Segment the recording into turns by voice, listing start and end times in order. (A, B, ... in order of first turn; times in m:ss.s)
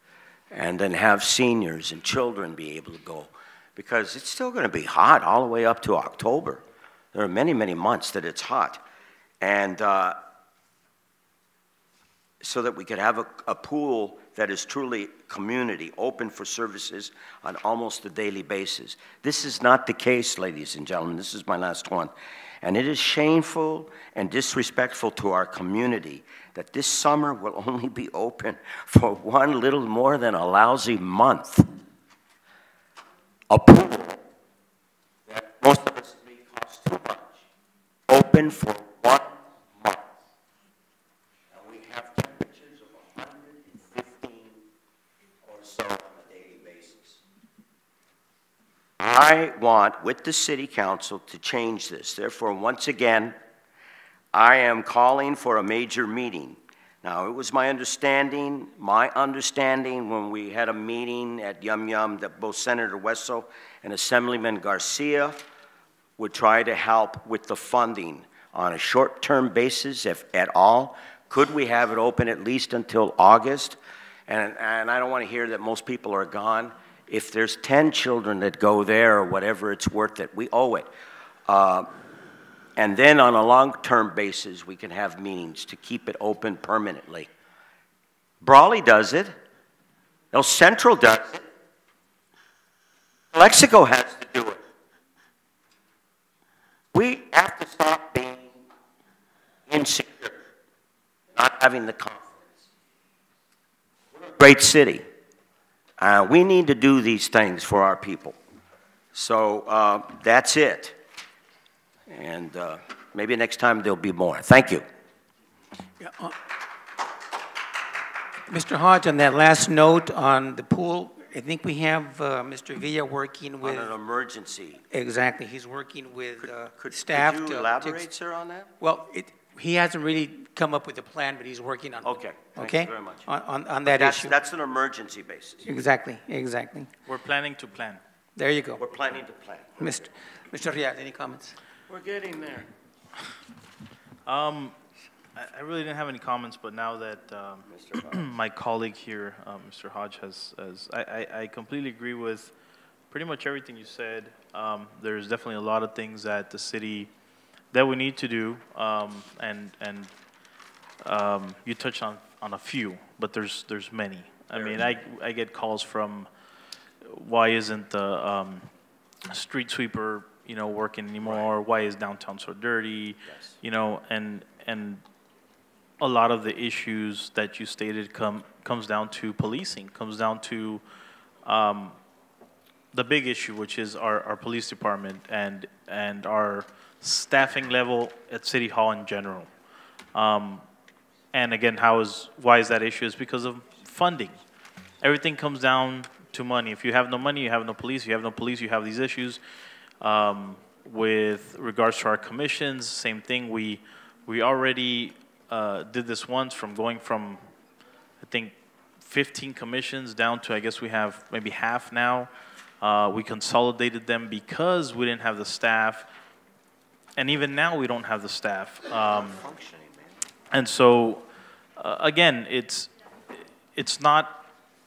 0:00.5-0:08.8 A
0:09.4-0:10.2 A
0:12.4-0:31.7 A
0:33.5-0:34.2 A
0:35.3-0:37.5 A
0:38.1-0:40.2 A
0:41.5-0:44.6 A
0:45.4-0:47.2 A
0:49.0-0:53.4 A
0:54.3-1:05.5 A
1:06.2-1:20.9 A
1:21.5-1:21.9 A
1:22.8-1:27.3 A
1:28.4-1:29.4 A
1:30.3-1:31.5 A
1:33.3-1:34.6 A
1:36.9-1:38.6 A
1:39.7-1:40.4 A
1:41.3-1:42.6 A
1:44.1-1:45.1 A
1:46.0-1:48.4 A
1:49.1-1:51.0 A
1:52.1-1:54.9 A
1:56.0-1:56.4 B
1:58.5-2:03.9 B
2:03.6-2:04.8 A
2:04.9-2:08.1 B
2:06.4-2:08.7 A
2:08.8-2:14.4 B
2:12.0-2:13.2 A
2:13.8-2:15.6 A
2:15.6-2:16.9 B
2:17.1-2:18.0 C
2:18.4-2:18.8 B
2:18.8-2:19.9 A
2:19.8-2:21.6 B
2:21.9-2:22.7 A
2:24.3-2:24.8 C
2:25.4-2:32.5 C
2:27.7-2:28.3 A
2:33.1-2:37.1 C
2:37.7-2:40.1 C
2:41.0-2:46.3 C
2:44.5-2:44.8 A
2:47.1-2:48.7 C
2:49.3-2:55.0 C
2:51.2-2:51.5 A
2:53.2-2:53.6 A
2:56.0-3:00.8 C
3:01.4-3:02.0 C
3:02.9-3:09.5 C
3:10.1-3:10.6 C
3:11.3-3:14.4 C
3:15.0-3:19.4 C
3:20.0-3:27.4 C
3:28.2-3:32.3 C
3:32.8-3:36.1 C
3:37.2-3:39.4 C
3:38.9-3:40.2 A
3:40.5-3:41.3 C
3:41.8-3:44.4 C